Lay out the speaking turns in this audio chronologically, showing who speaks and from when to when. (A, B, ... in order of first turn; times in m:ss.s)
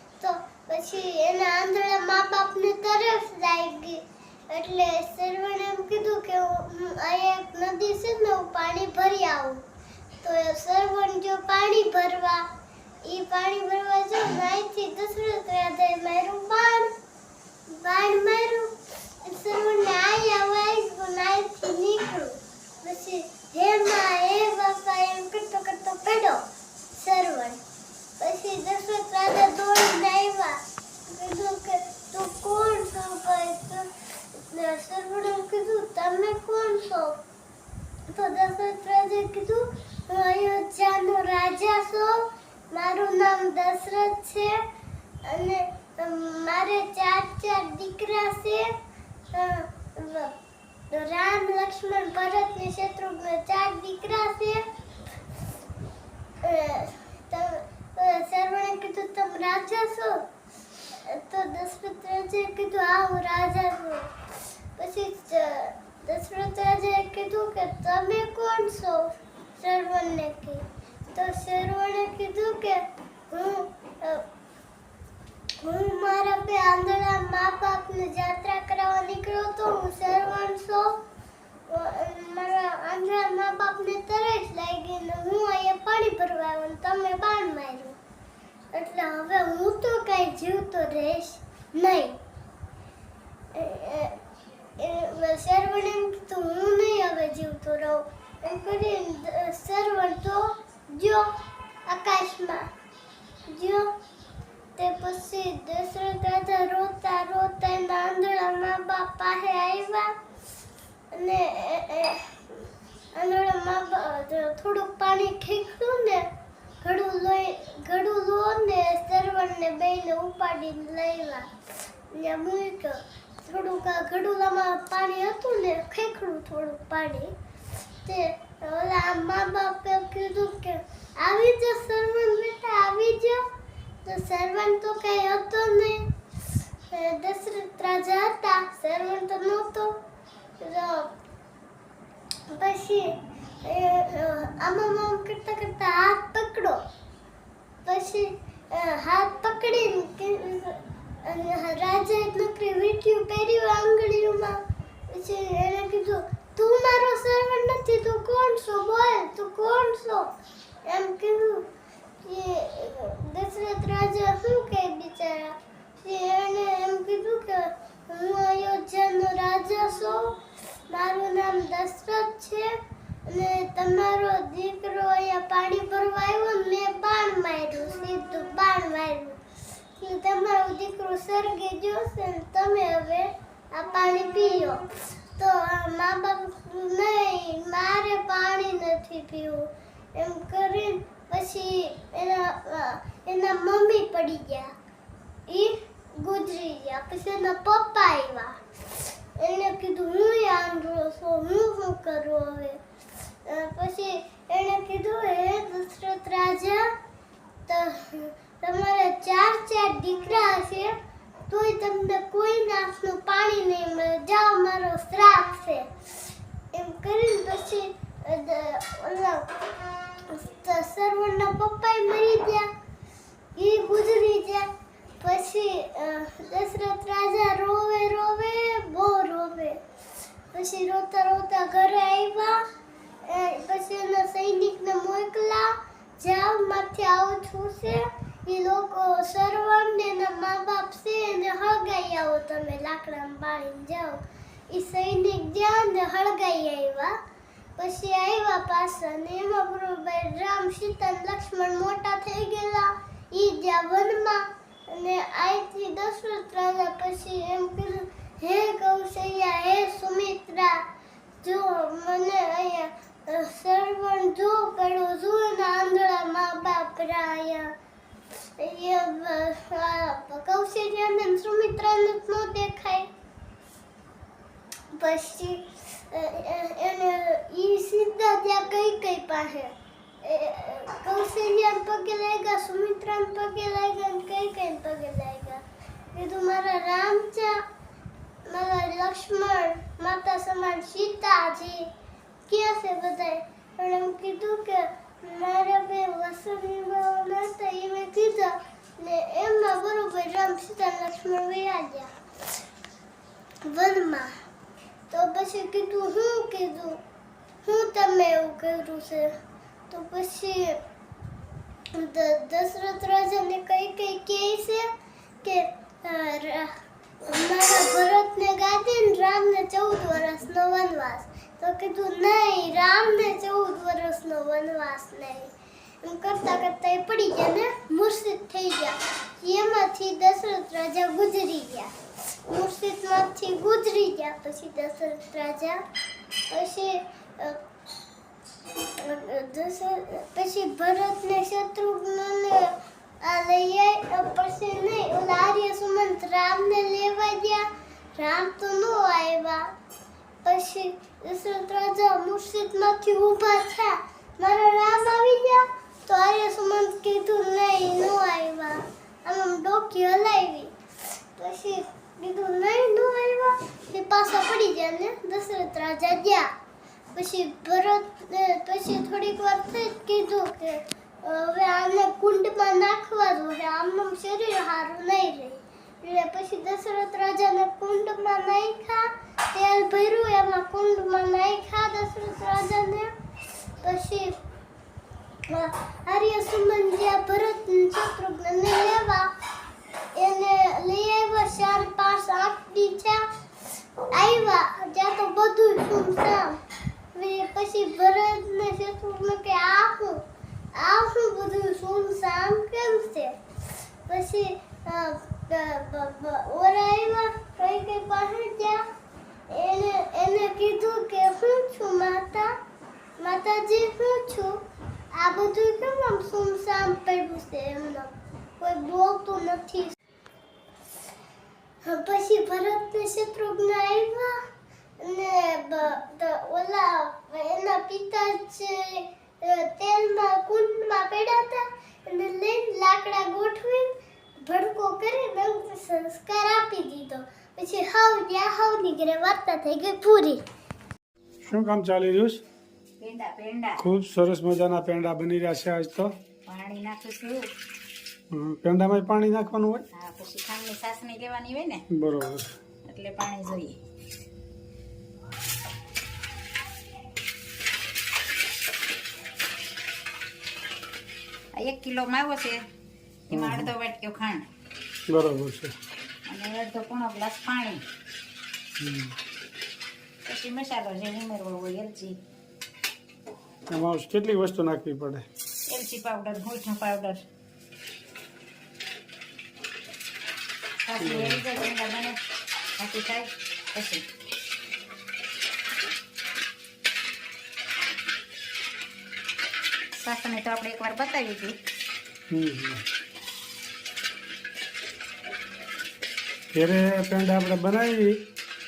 0:00.2-0:09.6 A
0:10.2-0:12.5 A
0:13.0-0:16.9 A
0:17.7-0:27.6 A
0:28.2-0:37.2 A
0:38.1-0:44.6 A
0:45.2-0:48.7 A
0:49.3-0:50.3 A
0:50.9-0:54.6 A
0:56.4-1:00.2 A
1:01.1-1:04.1 A
1:04.8-1:14.2 A
1:15.6-1:21.0 A
1:21.7-1:28.0 A
1:28.7-1:32.2 A
1:33.6-1:34.2 A
1:34.8-1:41.3 A
1:41.9-1:42.7 A
1:43.5-1:43.9 A
1:44.8-1:50.1 A
1:51.1-1:56.3 A
1:56.8-2:01.5 A
2:02.1-2:07.4 A
2:08.0-2:13.5 A
2:14.0-2:16.1 A
2:16.9-2:20.0 A
2:20.6-2:21.1 A
2:22.5-2:26.8 A
2:27.8-2:40.3 A
2:40.8-2:41.7 A
2:42.2-2:50.4 A
2:50.9-2:59.4 A
3:00.0-3:14.7 A
3:15.5-3:18.6 A
3:19.4-3:22.8 A
3:23.4-3:26.9 A
3:27.7-3:31.0 A
3:31.5-3:35.9 A
3:36.7-3:39.5 A
3:40.3-3:42.7 A
3:43.6-3:44.7 A
3:45.2-3:49.8 A
3:50.5-3:52.6 A
3:53.2-4:07.2 A
4:07.8-4:20.8 A
4:21.4-4:27.7 A
4:28.6-4:33.1 A
4:34.9-4:45.6 A
4:46.1-4:47.6 A
4:48.5-4:51.9 A
4:52.5-5:02.1 A
5:03.6-5:04.3 A
5:05.1-5:07.0 A
5:07.6-5:09.3 A
5:09.9-5:10.8 A
5:12.0-5:14.9 A
5:15.4-5:16.7 A
5:17.2-5:31.9 A
5:32.5-5:35.8 A
5:36.5-5:37.6 A
5:39.0-5:49.7 A
5:50.4-6:00.7 A
6:01.4-6:06.5 A
6:07.1-6:23.1 A
6:23.8-6:24.4 A
6:25.5-6:29.3 A
6:30.1-6:33.3 A
6:34.1-6:36.6 A
6:37.1-6:40.2 A
6:40.8-6:43.4 A
6:44.1-6:48.8 A
6:49.5-6:52.6 A
6:53.2-7:00.0 A
7:01.8-7:04.4 A
7:05.0-7:20.4 A
7:21.5-7:22.4 B
7:23.0-7:23.8 C
7:23.8-7:26.1 B
7:26.5-7:27.5 C
7:28.3-7:29.8 B
7:29.9-7:31.8 C
7:31.9-7:32.5 B
7:32.9-7:33.8 C
7:41.5-7:42.6 C
7:43.3-7:44.5 C
7:43.3-7:43.7 B
7:45.1-7:45.8 B
7:46.3-7:47.8 C
7:48.8-7:49.2 B
7:50.2-7:52.2 C
7:53.7-7:55.2 B
7:55.7-7:57.2 C
8:00.8-8:02.2 C
8:01.0-8:01.4 B
8:02.8-8:04.0 C
8:09.9-8:11.6 C
8:12.3-8:12.8 B
8:16.5-8:18.2 B